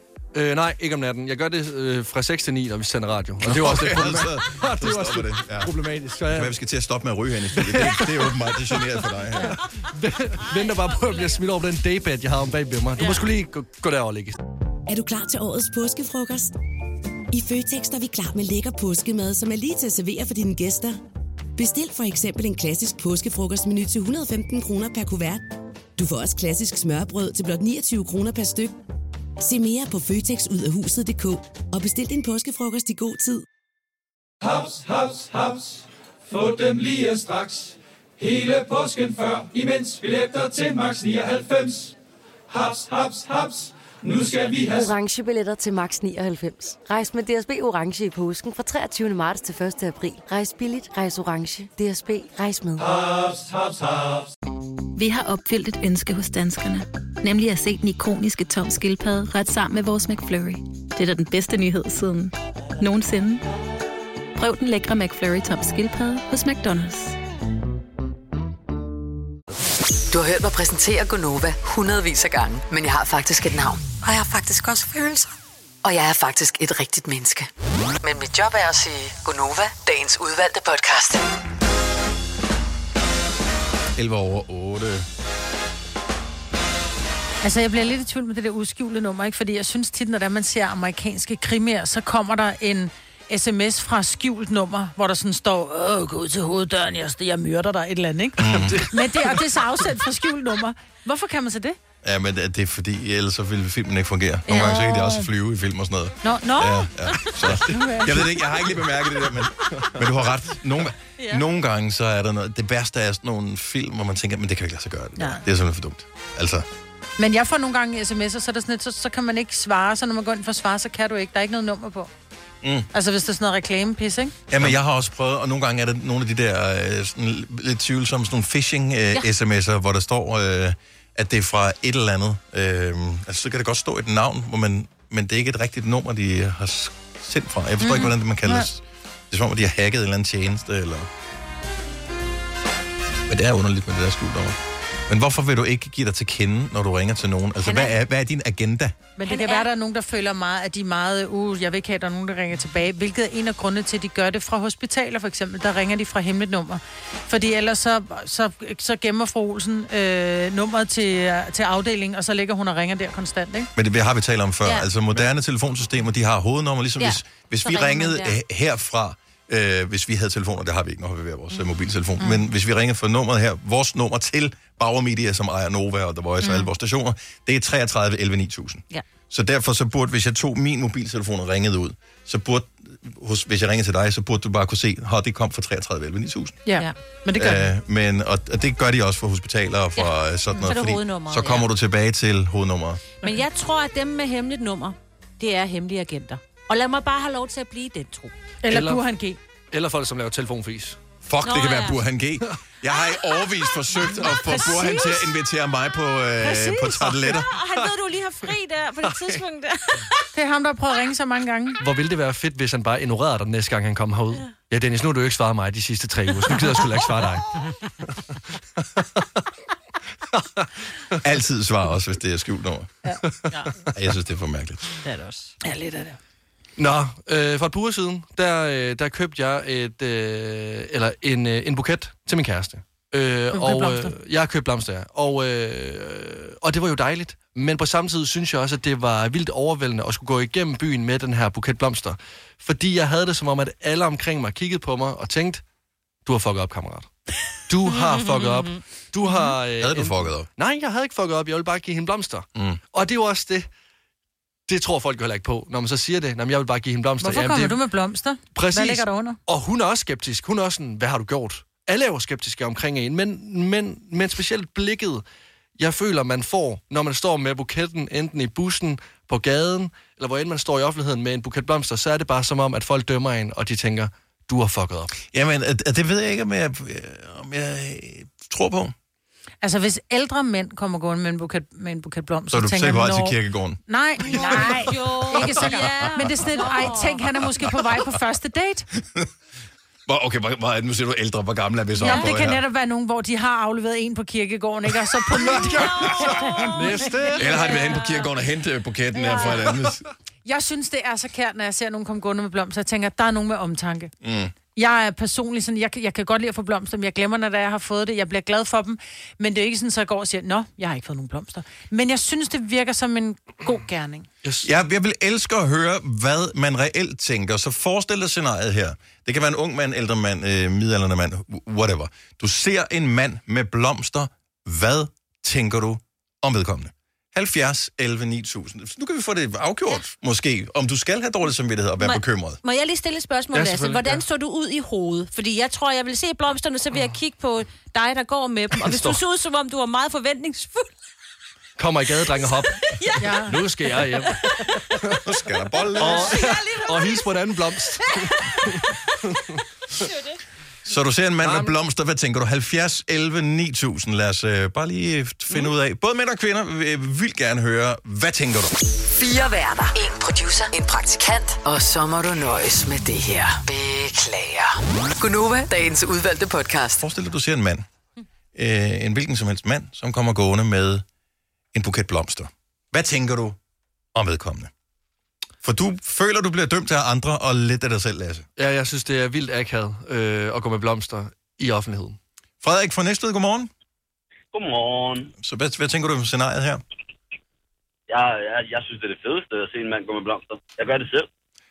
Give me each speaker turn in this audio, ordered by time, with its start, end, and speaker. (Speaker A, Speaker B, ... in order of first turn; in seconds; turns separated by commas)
Speaker A: 0.3-6.5, Speaker B: 3.4-5.8, Speaker B: 6.3-9.6, Speaker A: 7.5-8.8, Speaker A: 9.5-14.4, Speaker C: 10.6-11.4, Speaker D: 14.9-16.5, Speaker D: 17.3-21.0, Speaker D: 21.6-28.8, Speaker D: 29.4-33.5, Speaker E: 34.4-42.0, Speaker E: 42.5-44.9, Speaker F: 44.7-52.9, Speaker E: 52.8-54.3, Speaker G: 55.0-63.4, Speaker G: 64.4-67.2, Speaker H: 70.1-75.3, Speaker H: 75.8-77.5, Speaker H: 78.0-81.2, Speaker B: 84.0-85.1, Speaker I: 87.4-101.8, Speaker B: 98.4-98.9, Speaker A: 98.5-99.3, Speaker B: 102.0-116.7, Speaker I: 104.5-105.3, Speaker I: 106.2-106.9, Speaker I: 107.6-108.2, Speaker C: 111.2-111.5, Speaker I: 115.2-115.4, Speaker I: 117.2-122.1, Speaker B: 122.6-122.9, Speaker I: 122.9-124.4, Speaker B: 124.5-141.1, Speaker I: 137.8-138.7, Speaker B: 143.3-148.9, Speaker C: 147.7-147.9, Speaker I: 149.2-163.7, Speaker C: 149.2-149.7, Speaker B: 163.8-186.6, Speaker C: 167.0-168.4, Speaker I: 186.7-187.7, Speaker B: 187.3-193.0, Speaker C: 190.0-191.7, Speaker C: 193.2-198.3, Speaker I: 198.6-199.4, Speaker A: 198.7-199.0, Speaker A: 199.7-201.0, Speaker B: 201.2-207.5, Speaker C: 201.4-202.0, Speaker I: 204.2-205.3, Speaker I: 206.4-207.4, Speaker C: 207.2-210.2, Speaker I: 210.3-211.8, Speaker A: 211.8-217.5, Speaker A: 220.3-221.1, Speaker B: 221.2-222.9, Speaker B: 223.9-225.0, Speaker C: 225.1-225.5, Speaker I: 225.6-226.2, Speaker A: 226.8-245.6, Speaker I: 233.5-234.1, Speaker A: 246.2-247.1, Speaker A: 247.7-253.7, Speaker C: 247.9-248.8, Speaker B: 249.8-250.5, Speaker B: 252.6-252.8, Speaker A: 254.7-257.8, Speaker I: 257.2-259.4, Speaker A: 258.6-265.2, Speaker A: 265.8-275.1, Speaker B: 275.2-278.9, Speaker I: 279.6-283.4, Speaker B: 282.5-283.8, Speaker I: 283.9-288.9, Speaker C: 284.3-287.3, Speaker B: 284.3-284.8, Speaker B: 285.3-286.3, Speaker B: 289.0-289.3, Speaker B: 290.1-292.6, Speaker I: 292.0-296.7, Speaker C: 292.0-292.3, Speaker A: 295.6-297.7, Speaker B: 295.7-296.5, Speaker C: 295.8-298.3, Speaker B: 297.4-300.1, Speaker I: 299.1-299.7, Speaker I: 300.4-304.1, Speaker B: 304.2-304.5, Speaker I: 304.8-314.3, Speaker A: 314.4-314.7, Speaker B: 314.6-332.6, Speaker C: 332.0-340.9, Speaker A: 333.5-334.2, Speaker A: 338.9-339.2, Speaker A: 341.8-345.2, Speaker C: 342.4-344.7, Speaker I: 343.2-343.6, Speaker B: 345.2-346.5, Speaker C: 345.8-347.5, Speaker A: 346.0-349.5, Speaker C: 348.1-348.7, Speaker C: 350.0-350.3, Speaker B: 350.9-358.8, Speaker A: 351.4-351.7, Speaker H: 359.1-367.0, Speaker B: 367.0-367.9, Speaker B: 368.6-371.1, Speaker B: 371.7-373.6, Speaker B: 374.1-374.7, Speaker B: 375.6-378.5, Speaker A: 378.6-382.2, Speaker B: 382.6-383.7, Speaker J: 384.5-385.3, Speaker B: 385.4-386.8, Speaker J: 388.1-391.3